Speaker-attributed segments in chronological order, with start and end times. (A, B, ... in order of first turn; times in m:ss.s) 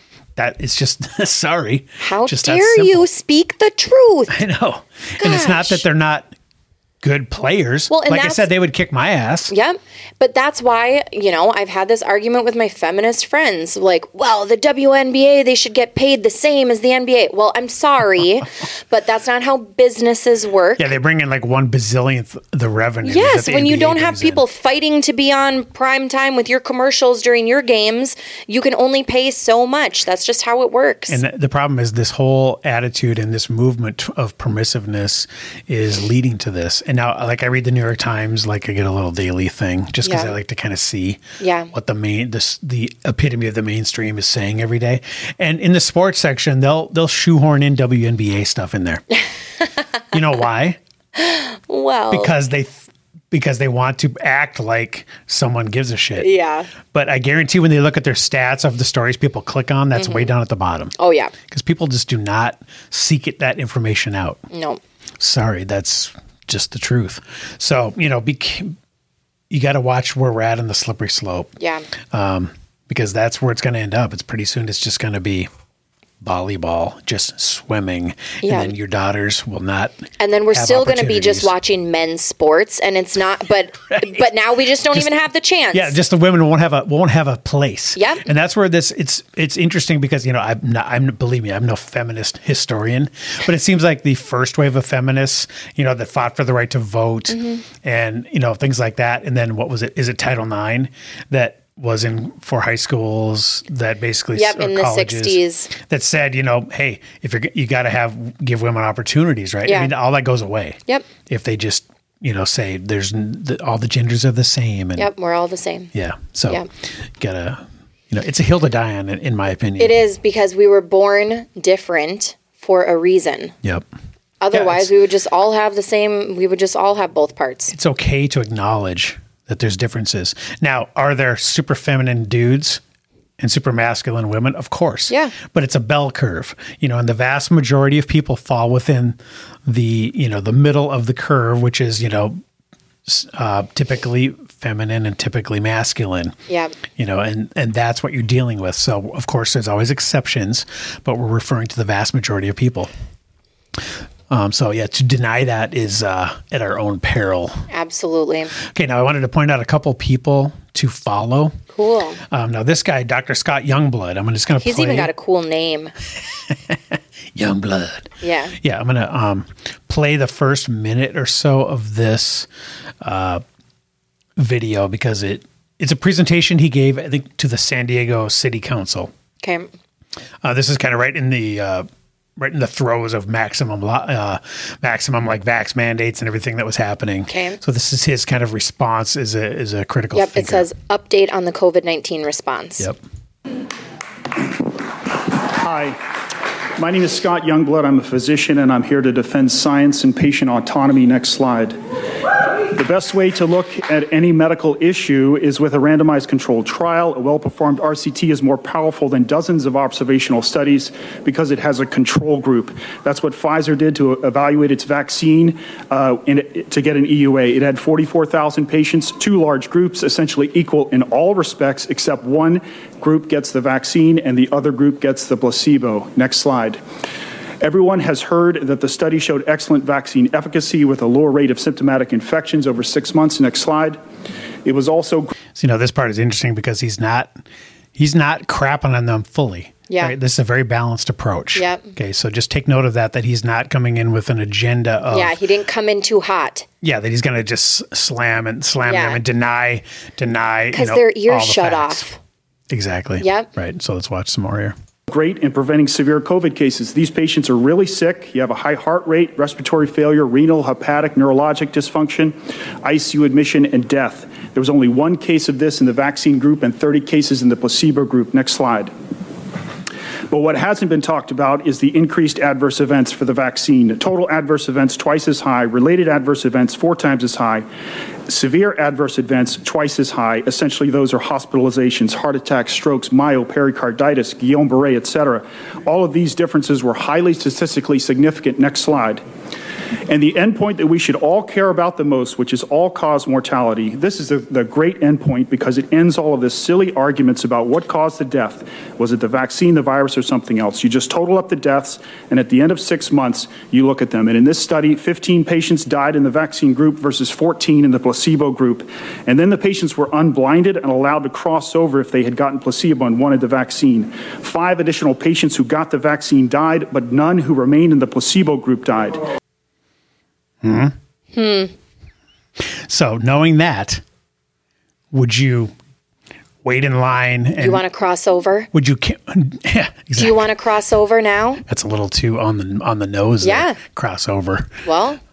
0:00.4-0:03.1 A
0:02.0-0:04.4 B
0:04.3-0:06.3 A
0:05.2-0:05.8 B
0:07.0-0:09.5 A
0:07.9-0:08.5 B
0:09.5-0:20.9 B
0:20.8-0:24.4 A
0:23.0-0:31.2 B
0:31.1-0:49.0 A
0:40.0-0:40.3 B
0:41.4-0:41.7 B
0:50.1-0:50.8 A
0:51.2-0:52.3 B
0:52.1-0:56.3 A
0:56.2-0:56.7 B
0:56.9-1:00.9 A
0:59.9-1:00.3 B
1:01.0-1:01.3 B
1:01.5-1:04.4 A
1:04.5-1:04.8 B
1:05.2-1:08.7 A
1:09.5-1:11.5 A
1:11.6-1:11.9 B
1:12.1-1:15.5 A
1:16.2-1:21.5 A
1:18.4-1:18.7 B
1:20.2-1:25.9 B
1:23.9-1:24.2 A
1:25.7-1:55.1 A
1:28.0-1:28.2 B
1:37.3-1:37.6 B
1:44.3-1:45.7 B
1:49.6-1:49.9 B
1:55.0-1:55.9 B
1:55.9-2:00.0 A
1:59.8-2:03.5 B
2:04.4-2:07.7 B
2:04.5-2:04.9 A
2:07.7-2:12.8 A
2:13.4-2:22.4 A
2:15.1-2:15.3 B
2:23.0-2:26.4 A
2:26.5-2:26.7 B
2:26.9-2:32.9 A
2:34.3-2:37.6 A
2:37.7-2:38.5 B
2:38.6-2:41.6 A
2:41.7-2:42.2 B
2:42.3-2:45.1 A
2:44.6-2:45.9 B
2:46.5-2:52.5 A
2:48.2-2:48.6 B
2:53.0-2:53.4 A
2:54.4-2:59.1 A
2:59.4-2:59.7 B
3:00.4-3:01.8 A
3:02.4-3:10.7 A
3:07.3-3:07.6 B
3:10.1-3:12.9 B
3:15.4-3:16.0 C
3:16.8-3:21.8 C
3:22.7-3:46.8 C
3:47.6-3:54.0 C
3:54.6-3:55.3 C
3:55.5-3:57.4 A
3:57.9-4:05.4 A
3:59.9-4:00.1 B
4:01.5-4:01.9 B
4:05.1-4:06.6 B
4:06.8-4:12.1 A
4:08.8-4:09.2 B
4:10.7-4:12.2 B
4:12.7-4:14.7 A
4:13.2-4:13.5 B
4:15.1-4:28.9 C
4:30.3-4:37.6 C
4:38.3-4:49.2 C
4:50.1-5:19.2 C
5:20.6-5:20.9 A
5:21.3-5:21.7 B
5:22.6-5:24.0 A
5:25.1-5:25.7 A
5:26.6-5:27.8 A
5:27.6-5:28.7 B
5:28.7-5:30.5 A
5:30.2-5:31.6 B
5:31.6-5:34.8 A
5:33.4-5:33.8 B
5:34.8-5:35.2 B